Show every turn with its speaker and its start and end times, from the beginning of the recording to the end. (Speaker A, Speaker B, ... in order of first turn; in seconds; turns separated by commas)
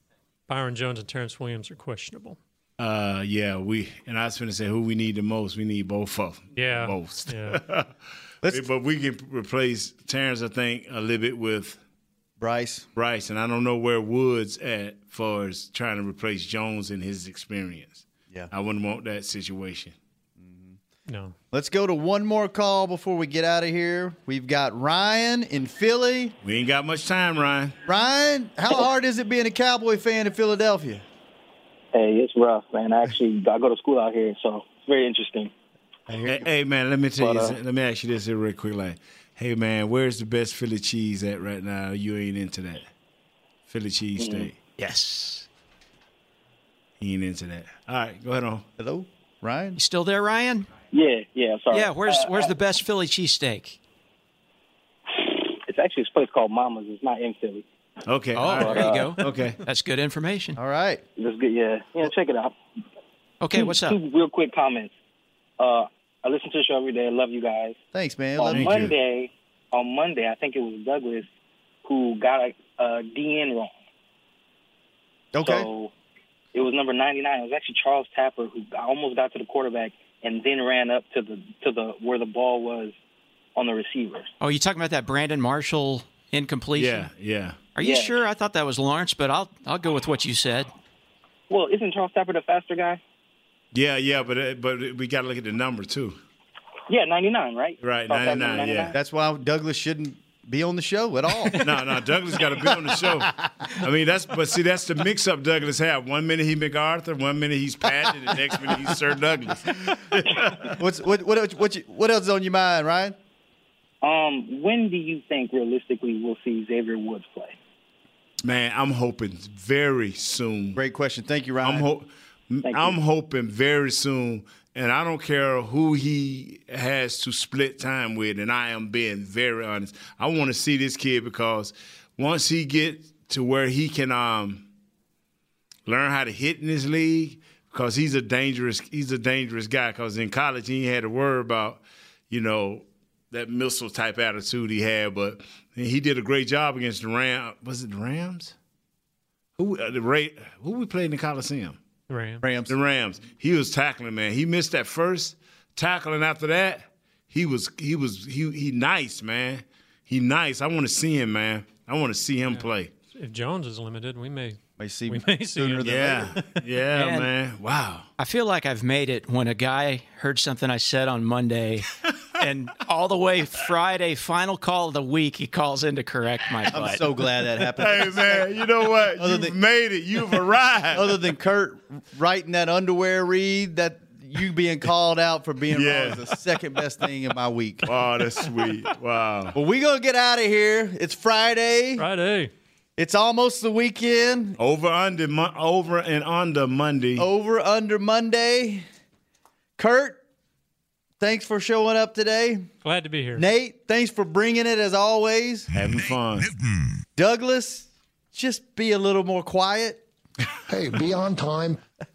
Speaker A: 0.5-2.4, Speaker B: 2.8-7.9, Speaker A: 6.5-7.6, Speaker C: 8.4-8.7, Speaker B: 8.5-11.8, Speaker C: 12.4-12.9, Speaker B: 12.9-19.9, Speaker C: 20.4-20.8, Speaker A: 21.1-21.4, Speaker C: 21.5-26.3, Speaker B: 26.4-27.8, Speaker C: 27.9-31.1, Speaker D: 31.9-35.5, Speaker C: 36.1-36.5, Speaker B: 36.3-42.9, Speaker D: 37.2-37.6, Speaker B: 43.7-44.6, Speaker D: 44.2-44.5, Speaker E: 44.8-45.5, Speaker B: 47.0-48.6, Speaker C: 48.8-49.8, Speaker E: 49.8-50.7, Speaker D: 50.9-52.6, Speaker E: 51.7-53.8, Speaker D: 55.1-57.6, Speaker B: 58.1-59.6, Speaker E: 58.4-60.6, Speaker D: 58.5-59.2, Speaker C: 60.6-61.0, Speaker D: 61.2-62.6, Speaker E: 63.4-64.0, Speaker D: 63.5-64.9, Speaker D: 65.6-67.8, Speaker C: 67.9-68.9, Speaker D: 68.4-71.3, Speaker B: 68.5-69.0, Speaker D: 71.8-73.8, Speaker C: 75.3-75.7, Speaker D: 75.4-75.9, Speaker D: 76.5-83.0, Speaker D: 83.6-84.3, Speaker E: 84.4-87.1, Speaker B: 86.8-87.6, Speaker E: 87.8-90.7, Speaker D: 87.8-88.2, Speaker D: 91.5-93.0, Speaker B: 93.7-96.2, Speaker D: 96.9-98.9, Speaker B: 97.8-98.9, Speaker C: 98.9-101.7, Speaker B: 101.6-110.7, Speaker C: 110.1-113.2, Speaker D: 114.0-117.6, Speaker B: 118.4-120.8, Speaker C: 120.8-121.9, Speaker B: 121.6-134.7, Speaker D: 122.7-123.0, Speaker B: 135.9-148.6, Speaker B: 149.6-151.8, Speaker A: 152.1-152.4, Speaker C: 152.4-152.8, Speaker B: 152.7-162.9, Speaker A: 162.5-166.6, Speaker C: 164.8-166.3, Speaker B: 165.8-168.1, Speaker E: 166.9-167.3, Speaker E: 168.2-177.1, Speaker C: 176.7-179.6, Speaker B: 177.8-181.2, Speaker C: 180.9-187.9, Speaker B: 185.7-186.4, Speaker B: 187.9-189.6, Speaker C: 189.5-192.1, Speaker A: 192.0-192.5, Speaker C: 193.0-194.6, Speaker B: 194.6-197.2, Speaker C: 197.2-198.8, Speaker C: 199.8-200.2, Speaker C: 201.2-202.7, Speaker A: 202.8-203.4, Speaker C: 203.3-205.7, Speaker B: 205.7-206.5, Speaker C: 207.2-210.0